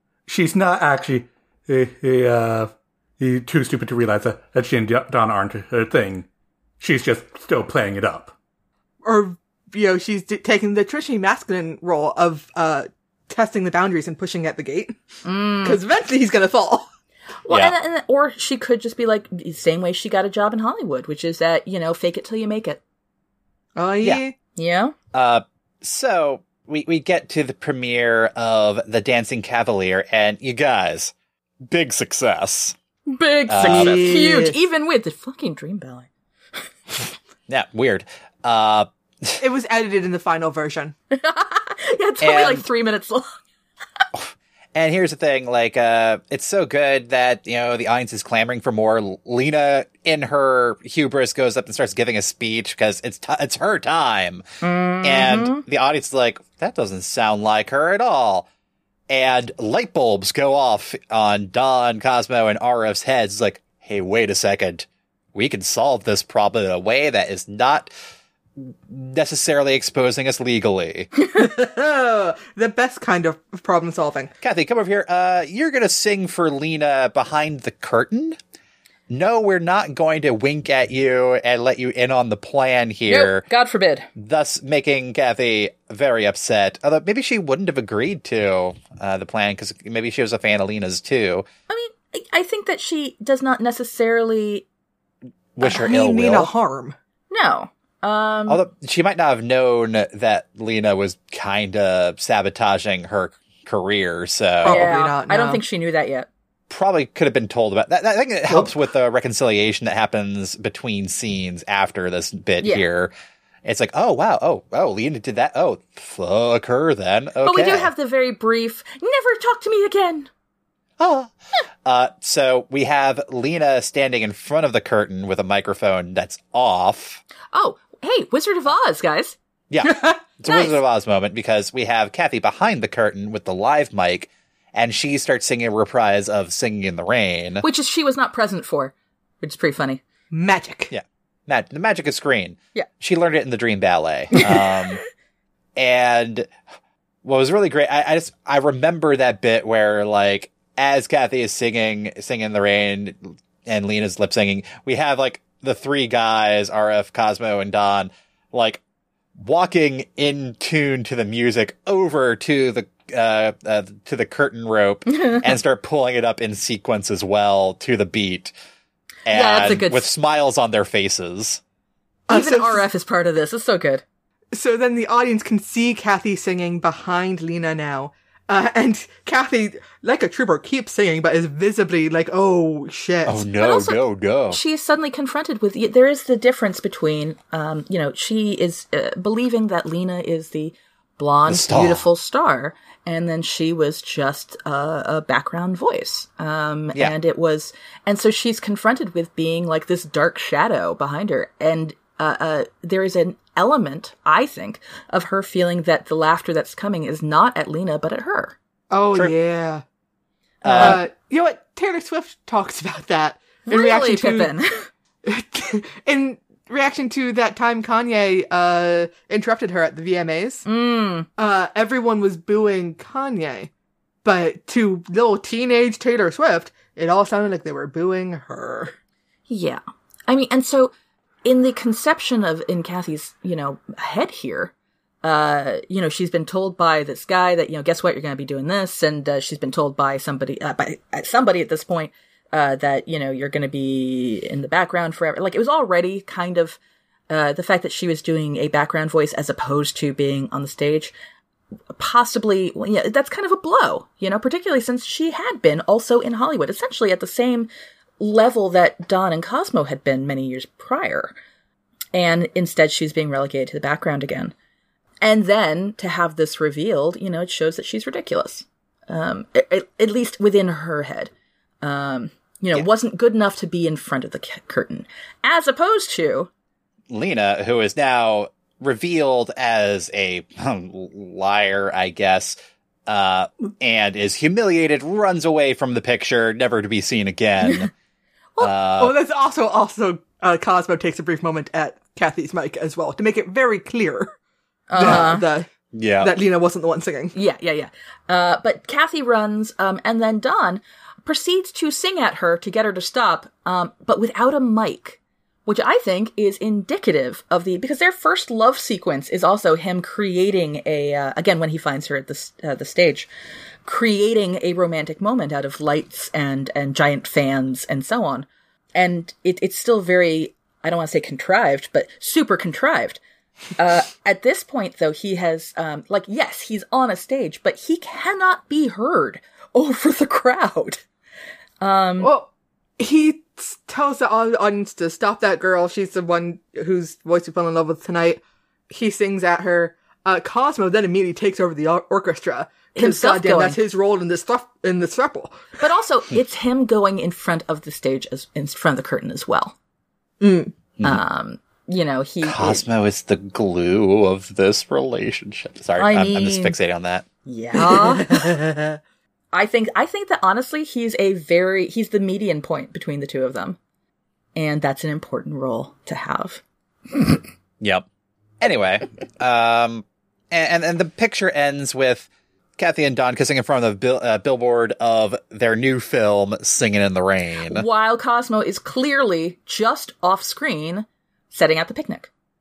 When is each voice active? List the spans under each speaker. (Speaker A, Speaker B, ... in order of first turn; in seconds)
Speaker A: 0.3-6.2, 6.8-8.3
Speaker B: 9.0-15.0, 15.6-16.9, 23.8-24.3, 33.6-34.6, 39.4-40.9, 71.3-74.3, 95.6-97.0, 104.6-105.6, 140.3-140.9, 172.3-172.8, 174.5-183.4, 208.9-209.8, 210.7-214.5, 215.2-220.6, 221.4-223.7, 224.2-228.9, 289.0-294.3, 294.9-295.7, 296.2-297.3, 332.2-345.6, 350.4-350.7, 357.7-359.0
Speaker C: 15.2-15.8, 17.4-22.8, 24.6-24.9, 33.1-36.1, 41.1-43.2, 54.6-55.6, 83.1-84.1, 91.7-94.7, 97.3-98.6, 104.6-106.3, 117.4-120.3, 127.5-130.8, 137.6-140.0, 165.1-165.5, 169.3-170.1, 172.3-174.0, 183.6-208.5, 210.6-211.0, 213.7-214.7, 220.7-221.3, 229.5-230.9, 231.4-246.8, 247.3-251.1, 251.9-261.3, 262.1-264.5, 265.2-271.3, 271.8-276.5, 287.6-287.9, 294.9-295.4, 297.3-313.3, 313.8-323.2, 323.8-331.0, 331.8-332.3, 342.9-343.8, 345.8-349.7, 351.0-352.8, 356.0-356.8, 357.4-358.5, 359.5-363.8, 364.5-367.4, 377.7-382.3
Speaker D: 17.5-17.7, 25.1-31.1, 31.6-32.8, 33.5-34.1, 37.5-39.4, 42.2-42.6, 44.1-54.4, 55.0-58.5, 59.1-67.9, 68.6-71.1, 74.4-78.4, 79.1-83.4, 84.2-91.5, 95.5-96.5, 98.5-104.9, 106.7-113.1, 113.6-117.9, 121.0-121.3, 121.8-127.2, 129.7-137.6, 140.9-145.0, 145.8-146.5, 147.2-158.8, 159.3-168.5, 169.3-171.6, 183.2-184.6, 191.5-192.0, 210.6-211.0, 277.1-282.6, 283.1-287.9, 288.6-289.1, 295.9-296.3, 352.4-357.2, 368.6-377.8